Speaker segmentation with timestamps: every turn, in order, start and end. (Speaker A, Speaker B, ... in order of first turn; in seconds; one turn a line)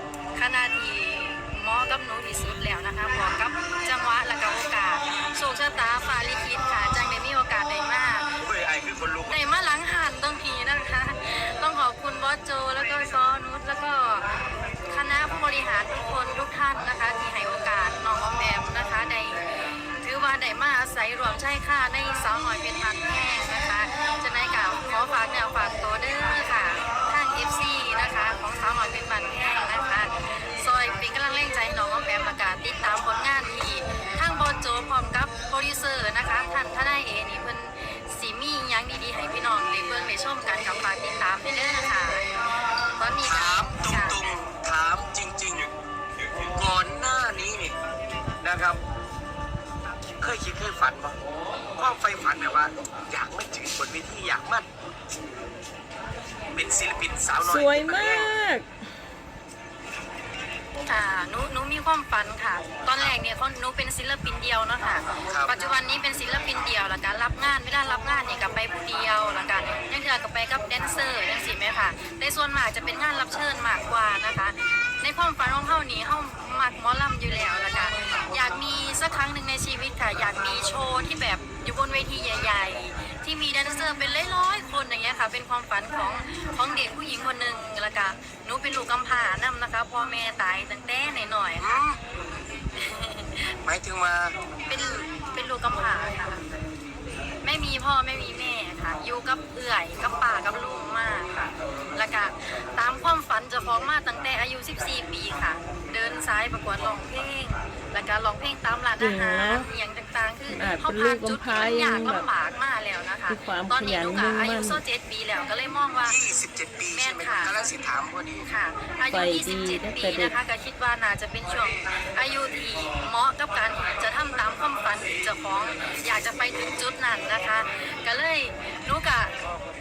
Speaker A: 0.3-8.3
Speaker B: 8.4-9.4
Speaker A: 9.3-14.3
Speaker A: 14.9-19.4
Speaker A: 20.0-42.2
Speaker A: 43.0-44.2
Speaker B: 43.2-47.7
Speaker B: 48.4-48.8
Speaker B: 50.2-51.1
Speaker B: 51.8-54.7
Speaker B: 56.5-58.3
Speaker C: 57.4-58.7
Speaker A: 60.8-91.8
Speaker B: 65.3-65.5
Speaker B: 91.6-92.0
Speaker A: 92.7-93.5
Speaker B: 93.6-94.3
Speaker A: 94.7-96.4
Speaker A: 97.4-116.2
Speaker C: 109.0-109.7
Speaker C: 110.5-112.2
Speaker C: 113.3-114.8
Speaker B: 116.0-118.5
Speaker A: 116.9-117.5
Speaker A: 118.5-129.3
Speaker C: 119.1-120.3